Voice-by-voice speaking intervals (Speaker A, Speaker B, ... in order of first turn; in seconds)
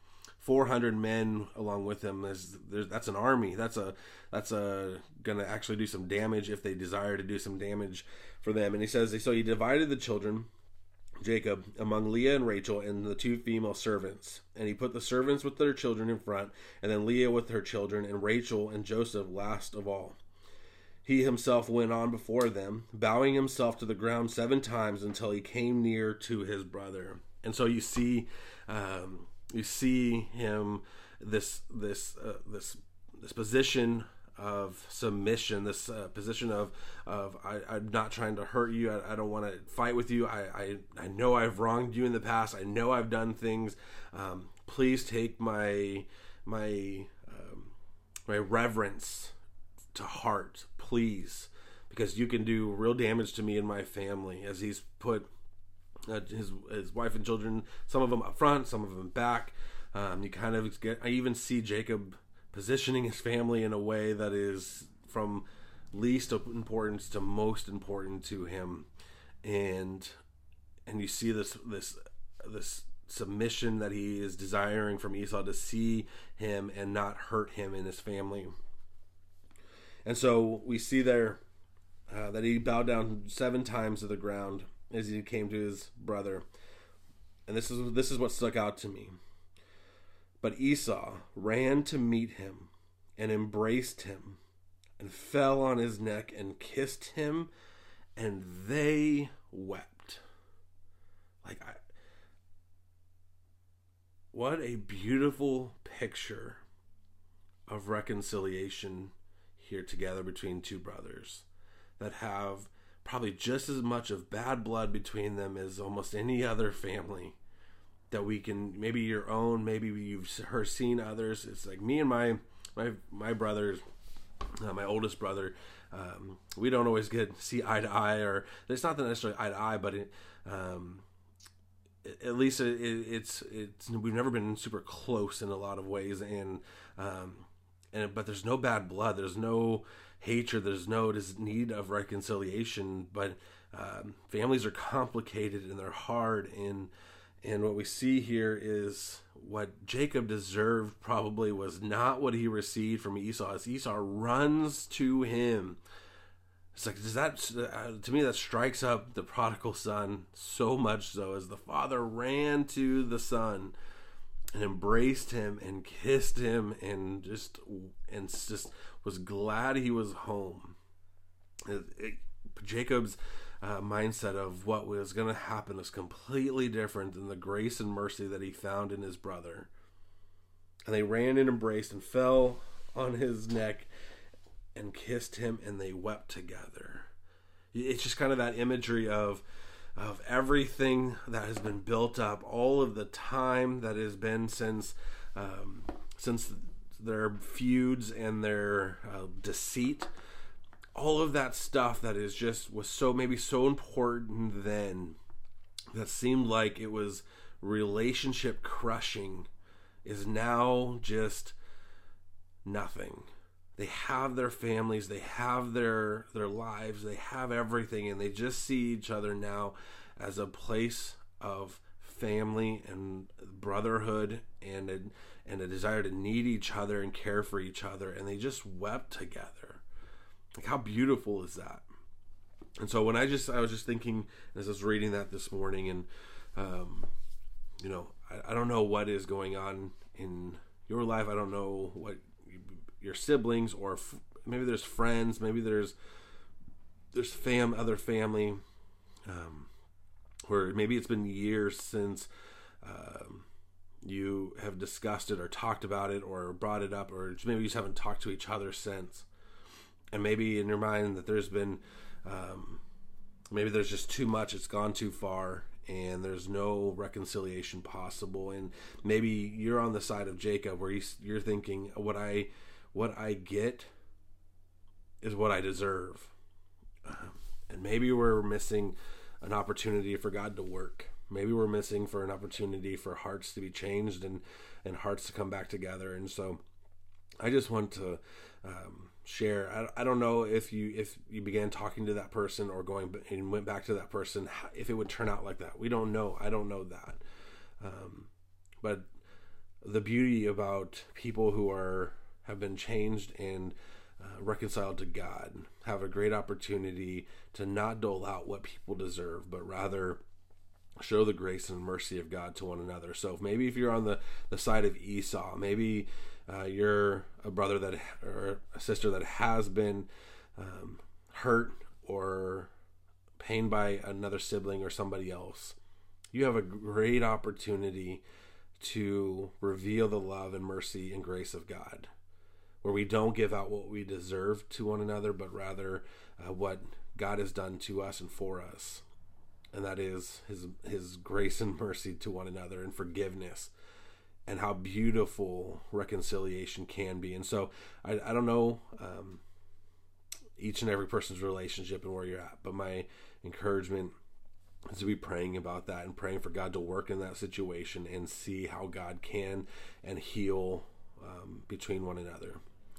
Speaker A: 0.4-10.5, 11.2-20.2, 21.0-47.7, 48.3-49.4, 49.9-55.3, 56.1-68.9, 69.4-70.1, 70.8-78.5, 80.0-81.4, 82.1-86.5, 87.5-89.2, 90.4-94.4, 95.0-97.5, 98.2-100.2, 101.4-101.8, 104.3-106.6, 107.7-111.5, 112.0-117.4, 118.1-123.8, 124.5-131.0, 132.0-155.8, 156.7-163.7, 164.5-170.8, 171.6-179.7, 180.8-183.9, 184.7-187.1, 187.7-189.4, 189.9-200.1, 200.9-205.2, 205.9-209.5, 210.0-211.6, 212.6-229.8, 230.6-231.8, 232.8-237.1, 237.8-245.9, 247.1-248.6, 249.3-249.7, 250.5-252.3, 252.8-253.4, 254.0-259.3, 260.1-262.8, 263.5-273.9, 275.2-276.3, 277.0-286.6, 287.4-297.2, 297.8-298.3, 298.8-299.1, 299.8-310.2, 311.0-322.7, 323.4-325.8, 326.3-328.2, 328.8-332.1, 332.8-339.0, 339.7-343.7, 344.4-349.4, 350.6-354.1, 354.9-362.6